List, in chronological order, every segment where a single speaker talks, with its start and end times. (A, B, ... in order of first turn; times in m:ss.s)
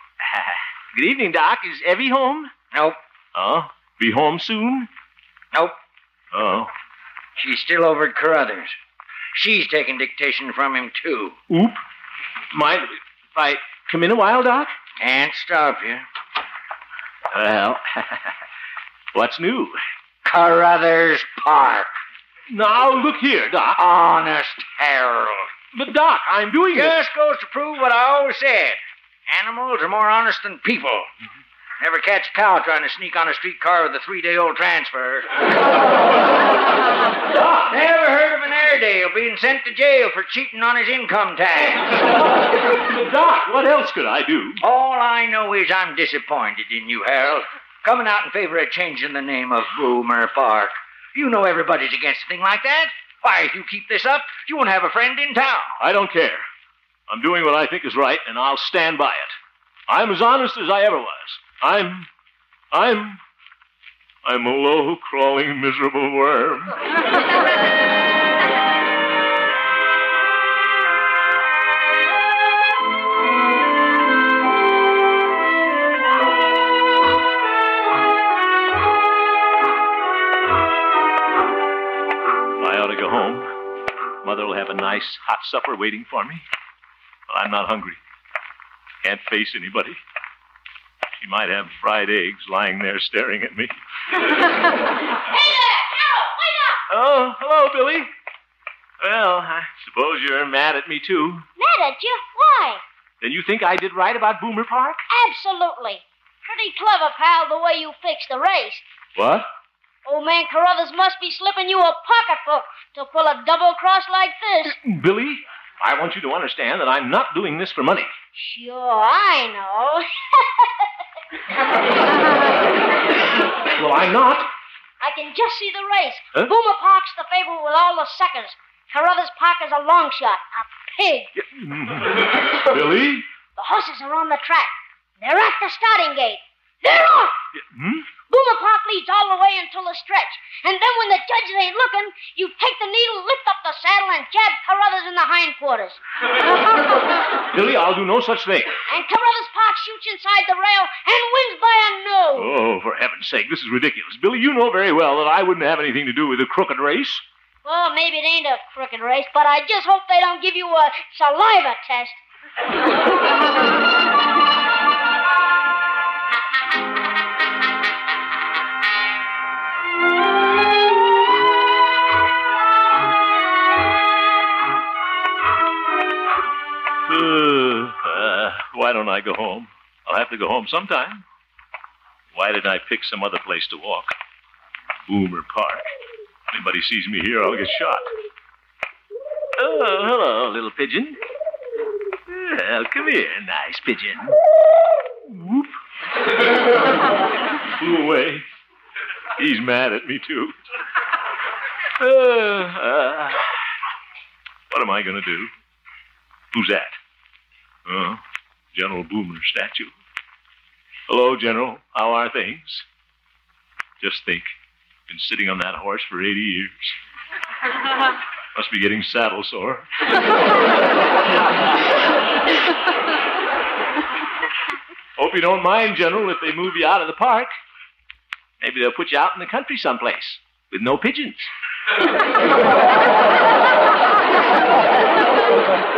0:00.2-0:02.5 A
0:02.7-0:03.0 B
0:03.4-0:04.9 A
0:06.3-0:06.7 A
0:07.4-0:08.8 B
0:09.3-0:11.4 B
0:11.5-0:11.8 A
0:12.5-0:14.8 A
0:15.0-0:16.0 B
0:17.3-0:18.3 A
0:19.1-0:19.8 A
0:20.2-0:21.9 B
0:22.5-0:23.8 A
0:23.8-0:25.6 B
0:25.7-0:27.0 A
0:26.7-0:31.1 B
0:31.8-0:35.4 B
0:37.3-0:37.7 A
0:37.7-0:41.9 B
0:42.7-0:44.6 A
0:44.6-0:55.7 B
0:55.8-0:56.4 A
0:57.1-0:59.4 A
0:59.9-1:02.1 A
1:02.7-1:03.2 A
1:04.2-1:06.7 A
1:22.6-1:23.5 A
1:24.2-1:26.4 A
1:27.3-1:28.0 A
1:29.0-1:30.0 A
1:31.2-1:33.8 A
1:35.3-1:36.8 C
1:36.9-1:38.1 A
1:39.0-1:41.5 A
1:41.6-1:42.8 C
1:43.2-1:45.0 A
1:45.1-1:48.8 C
1:49.2-1:49.5 A
1:50.0-1:54.8 C
1:54.7-1:58.1 A
1:58.4-2:00.7 C
2:03.8-2:04.5 A
2:05.0-2:11.3 C
2:11.3-2:13.3 A
2:13.6-2:17.4 C
2:17.5-2:18.2 A
2:18.2-2:26.0 C
2:27.5-2:28.8 A
2:28.9-2:32.5 C
2:32.4-2:37.2 A
2:37.6-2:42.2 C
2:57.1-3:01.2 A
3:02.3-3:04.1 A
3:05.1-3:05.9 A
3:06.5-3:08.1 A
3:09.6-3:11.2 A
3:12.3-3:14.4 A
3:15.3-3:15.8 A
3:17.8-3:18.5 A
3:19.4-3:20.5 A
3:22.0-3:23.5 A
3:24.7-3:25.5 A
3:26.5-3:27.0 A
3:27.9-3:28.2 A
3:28.7-3:29.9 A
3:31.1-3:32.8 A
3:34.0-3:34.5 A
3:35.1-3:36.9 A
3:38.6-3:39.9 A
3:45.2-3:47.5 A
3:48.6-3:51.5 A